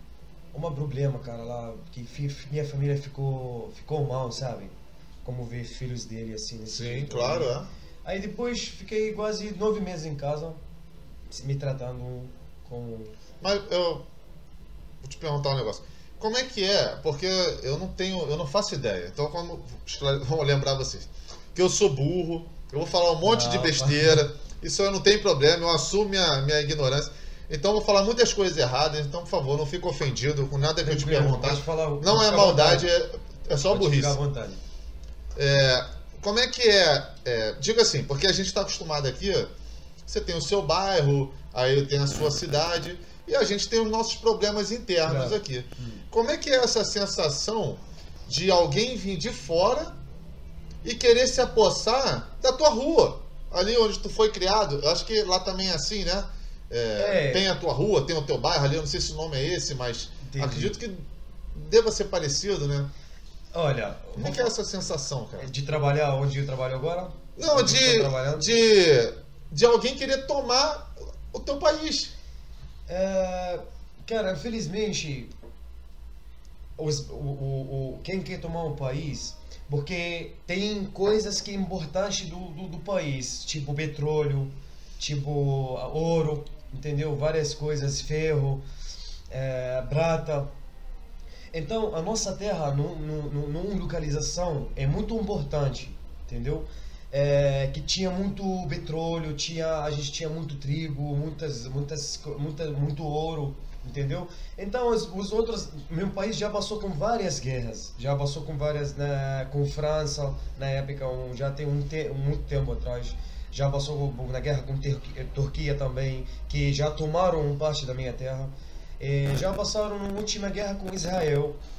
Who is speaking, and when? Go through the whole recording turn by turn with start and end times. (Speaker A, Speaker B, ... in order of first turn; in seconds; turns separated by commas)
Speaker A: 0.5-7.5, Speaker B: 6.7-7.7, Speaker A: 8.0-10.6, Speaker A: 11.3-13.1, Speaker B: 13.4-14.0, Speaker B: 15.0-34.2, Speaker A: 23.2-24.2, Speaker A: 30.8-32.9, Speaker A: 33.7-34.6, Speaker B: 35.4-39.5, Speaker B: 40.0-50.0, Speaker A: 45.0-46.0, Speaker B: 50.8-62.9, Speaker A: 57.0-57.5, Speaker A: 60.2-60.8, Speaker A: 63.5-64.5, Speaker B: 64.2-65.5, Speaker A: 65.4-68.5, Speaker B: 67.3-72.1, Speaker A: 72.9-75.3, Speaker A: 76.8-88.6, Speaker A: 89.3-90.5, Speaker A: 91.5-121.6